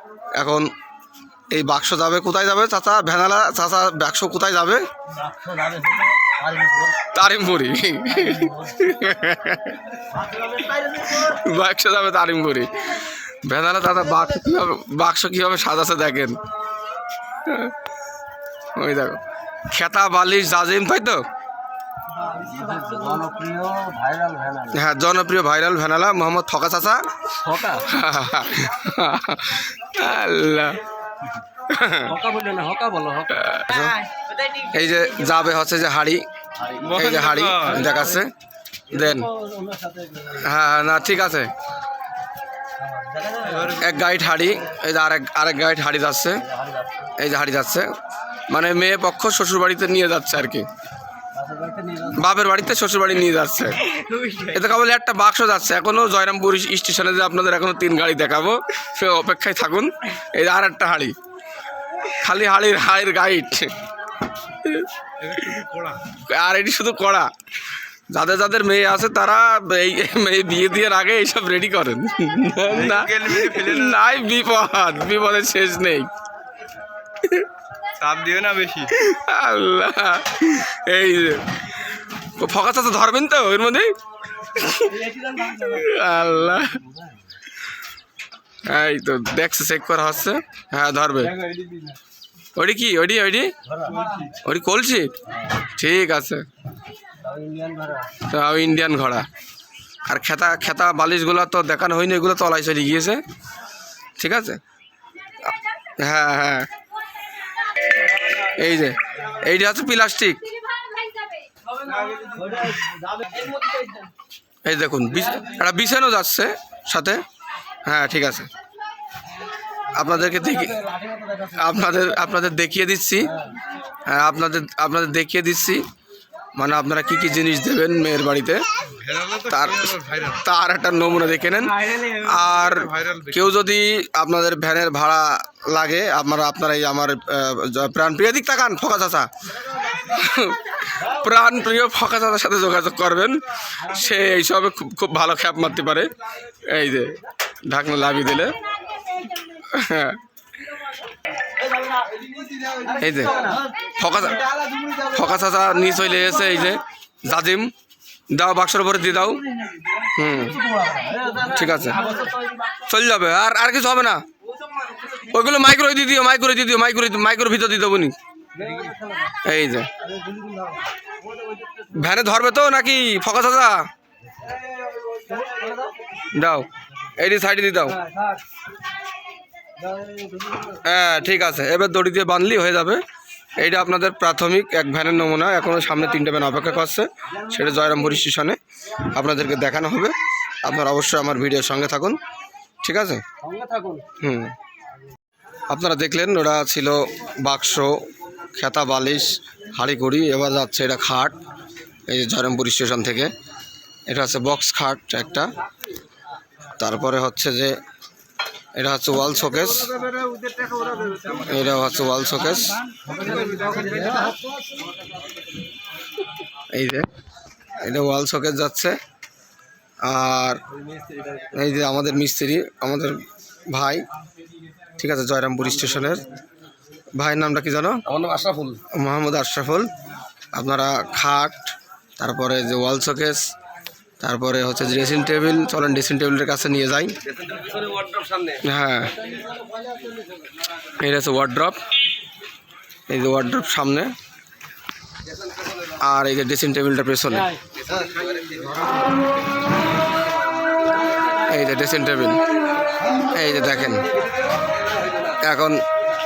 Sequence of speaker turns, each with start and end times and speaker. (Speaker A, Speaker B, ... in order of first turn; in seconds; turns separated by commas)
Speaker A: 0.4-0.7, Speaker A: 1.5-4.8, Speaker B: 5.2-7.0, Speaker A: 7.1-9.8, Speaker B: 10.4-10.7, Speaker A: 11.0-16.4, Speaker A: 17.5-17.8, Speaker A: 18.8-21.2, Speaker B: 22.3-24.8, Speaker A: 24.7-27.1, Speaker B: 27.4-27.9, Speaker A: 27.7-30.8, Speaker A: 31.7-32.2, Speaker B: 32.1-33.5, Speaker A: 33.3-34.0, Speaker A: 34.6-36.2, Speaker C: 36.8-37.9, Speaker A: 36.9-38.3, Speaker A: 38.9-39.3, Speaker B: 39.0-40.4, Speaker A: 40.4-41.5, Speaker B: 42.8-43.8, Speaker C: 43.5-43.9, Speaker A: 43.8-46.4, Speaker B: 46.6-47.1, Speaker A: 47.2-47.9, Speaker A: 48.5-50.7, Speaker B: 51.4-52.2, Speaker A: 52.2-53.9, Speaker A: 54.4-61.1, Speaker A: 62.1-63.7, Speaker A: 64.6-64.9, Speaker C: 65.2-66.0, Speaker A: 66.2-67.3, Speaker A: 68.1-76.1, Speaker C: 72.7-74.1, Speaker C: 78.0-78.9, Speaker A: 78.9-81.5, Speaker A: 82.4-86.8, Speaker A: 88.7-91.3, Speaker A: 92.6-93.5, Speaker A: 94.3-95.1, Speaker A: 95.8-96.5, Speaker B: 97.2-98.1, Speaker A: 98.3-99.3, Speaker A: 100.1-103.2, Speaker A: 104.2-104.6, Speaker A: 106.0-106.7, Speaker A: 108.3-110.4, Speaker A: 114.7-117.2, Speaker A: 117.9-118.5, Speaker A: 120.0-120.8, Speaker A: 121.5-123.3, Speaker A: 124.1-125.8, Speaker A: 126.6-128.6, Speaker C: 128.9-130.4, Speaker A: 129.5-139.3, Speaker C: 132.3-133.5, Speaker A: 140.0-146.1, Speaker A: 146.7-148.5, Speaker A: 149.7-150.2, Speaker A: 152.9-153.4, Speaker A: 154.0-154.4, Speaker A: 155.0-157.7, Speaker A: 158.3-159.4, Speaker A: 160.2-160.6, Speaker B: 160.8-161.6, Speaker A: 161.5-162.1, Speaker A: 162.8-164.2, Speaker A: 165.1-168.2, Speaker B: 168.6-169.3, Speaker A: 169.4-169.9, Speaker B: 170.1-170.8, Speaker A: 171.9-173.9, Speaker B: 175.3-175.7, Speaker A: 176.3-176.7, Speaker A: 177.2-178.0, Speaker B: 179.9-180.8, Speaker A: 180.8-183.0, Speaker A: 183.6-188.6, Speaker A: 189.1-192.2, Speaker A: 192.8-193.2, Speaker B: 193.4-194.1, Speaker A: 194.2-194.5, Speaker A: 195.7-198.0, Speaker A: 198.6-201.3, Speaker A: 202.1-203.3, Speaker A: 204.1-205.5, Speaker A: 206.8-207.8, Speaker A: 208.8-209.9, Speaker B: 210.5-211.1, Speaker C: 211.1-211.4, Speaker A: 211.4-212.8, Speaker B: 213.2-214.3, Speaker C: 213.4-214.1, Speaker A: 216.7-217.1, Speaker A: 217.8-219.0, Speaker A: 220.0-220.6, Speaker A: 221.5-223.2, Speaker A: 223.7-224.0, Speaker A: 225.0-226.3, Speaker A: 227.2-228.0, Speaker B: 228.1-228.8, Speaker A: 228.9-229.9, Speaker A: 230.5-233.4, Speaker A: 234.2-237.1, Speaker B: 237.5-238.6, Speaker A: 238.6-239.1, Speaker A: 241.0-241.8, Speaker A: 243.1-244.1, Speaker A: 246.0-247.5, Speaker A: 251.5-252.4, Speaker A: 253.3-254.1, Speaker A: 255.4-255.8